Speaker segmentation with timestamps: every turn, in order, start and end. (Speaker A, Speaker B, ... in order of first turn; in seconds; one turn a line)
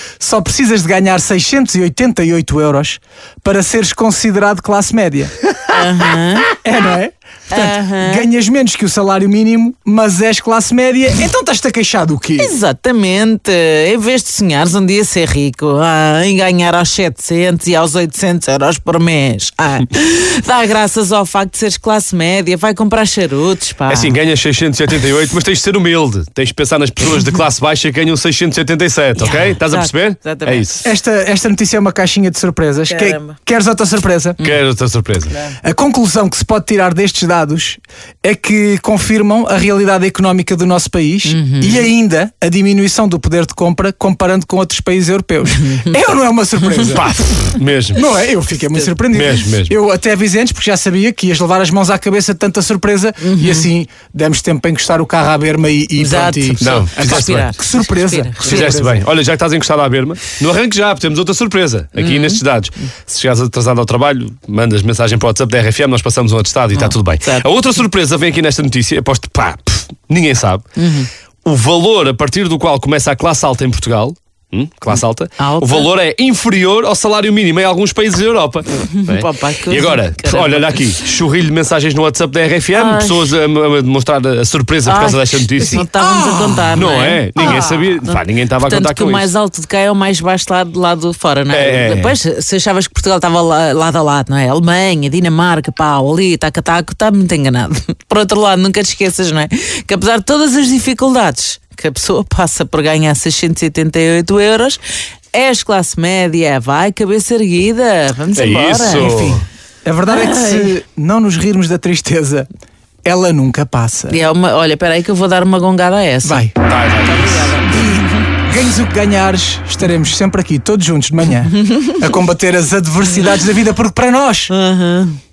Speaker A: 0.2-5.4
Speaker B: 5.7-6.5
Speaker A: 6.5-12.5
Speaker B: 7.5-8.3
Speaker B: 12.4-24.2
Speaker C: 23.9-30.9
Speaker B: 29.2-30.8
Speaker A: 30.8-34.4
Speaker B: 32.9-33.4
Speaker C: 34.4-35.3
Speaker B: 35.3-35.5
Speaker A: 35.6-47.1
Speaker B: 41.2-41.9
Speaker C: 46.9-48.1
Speaker A: 47.9-59.1
Speaker C: 49.1-49.7
Speaker B: 53.2-53.7
Speaker B: 56.0-58.8
Speaker C: 56.6-57.5
Speaker C: 58.4-70.6
Speaker B: 62.0-62.4
Speaker B: 66.7-67.5
Speaker B: 70.8-71.1
Speaker C: 71.4-85.8
Speaker B: 74.9-75.9
Speaker B: 78.9-80.8
Speaker B: 82.7-83.3
Speaker B: 84.8-104.8
Speaker A: 85.7-86.8
Speaker C: 86.7-89.3
Speaker C: 91.5-92.2
Speaker B: 105.3-109.2
Speaker C: 108.3-109.4
Speaker A: 108.9-112.5
Speaker B: 110.1-110.8
Speaker A: 113.0-114.2
Speaker B: 114.1-116.5
Speaker A: 116.2-116.6
Speaker C: 116.6-117.6
Speaker B: 117.0-118.3
Speaker A: 117.6-124.5
Speaker B: 121.7-121.9
Speaker B: 123.0-123.4
Speaker B: 124.5-125.2